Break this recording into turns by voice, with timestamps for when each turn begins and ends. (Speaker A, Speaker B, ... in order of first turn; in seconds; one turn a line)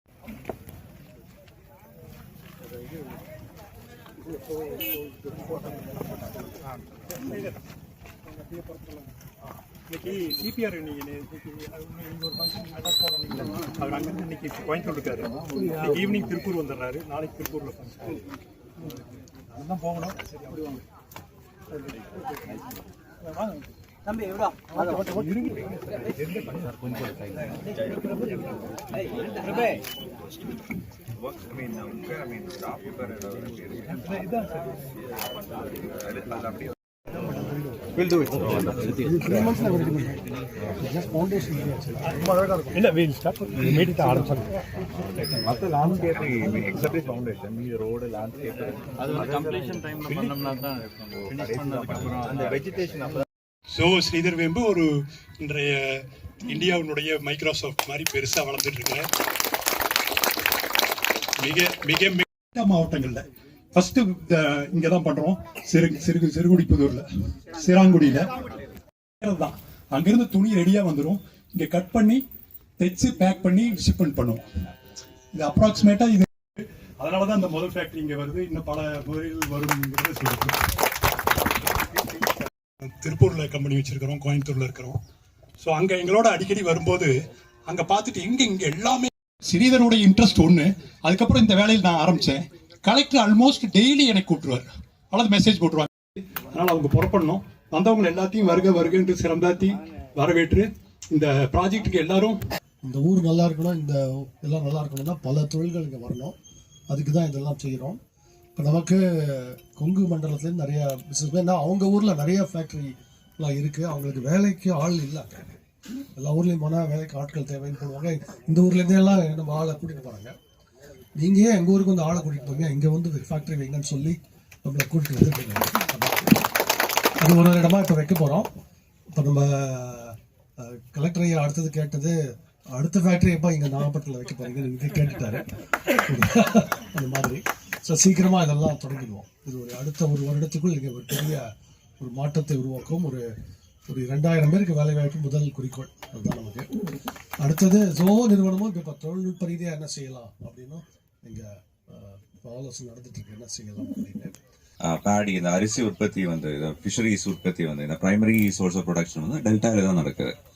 Speaker A: 7.2-7.5
Speaker A: 8.7-9.0
Speaker A: 9.9-18.2
Speaker A: 19.5-20.6
Speaker A: 24.7-26.6
Speaker B: 38.2-38.5
Speaker C: 39.0-40.2
Speaker C: 40.8-42.8
Speaker A: 42.8-44.4
Speaker B: 45.4-48.7
Speaker D: 49.1-50.6
Speaker D: 51.4-52.4
Speaker A: 53.7-54.9
Speaker A: 55.4-59.1
Speaker A: 61.4-68.3
Speaker A: 69.2-72.2
Speaker A: 72.8-74.4
Speaker A: 75.3-80.6
Speaker A: 82.8-85.0
Speaker A: 85.6-87.1
Speaker A: 87.7-102.4
Speaker C: 102.8-106.4
Speaker C: 106.9-108.0
Speaker C: 108.5-115.5
Speaker C: 116.2-120.3
Speaker C: 121.2-126.4
Speaker C: 127.2-128.5
Speaker C: 129.1-132.2
Speaker C: 132.7-141.4
Speaker C: 142.0-143.3
Speaker C: 143.9-146.7
Speaker C: 147.4-154.3
Speaker E: 154.8-160.3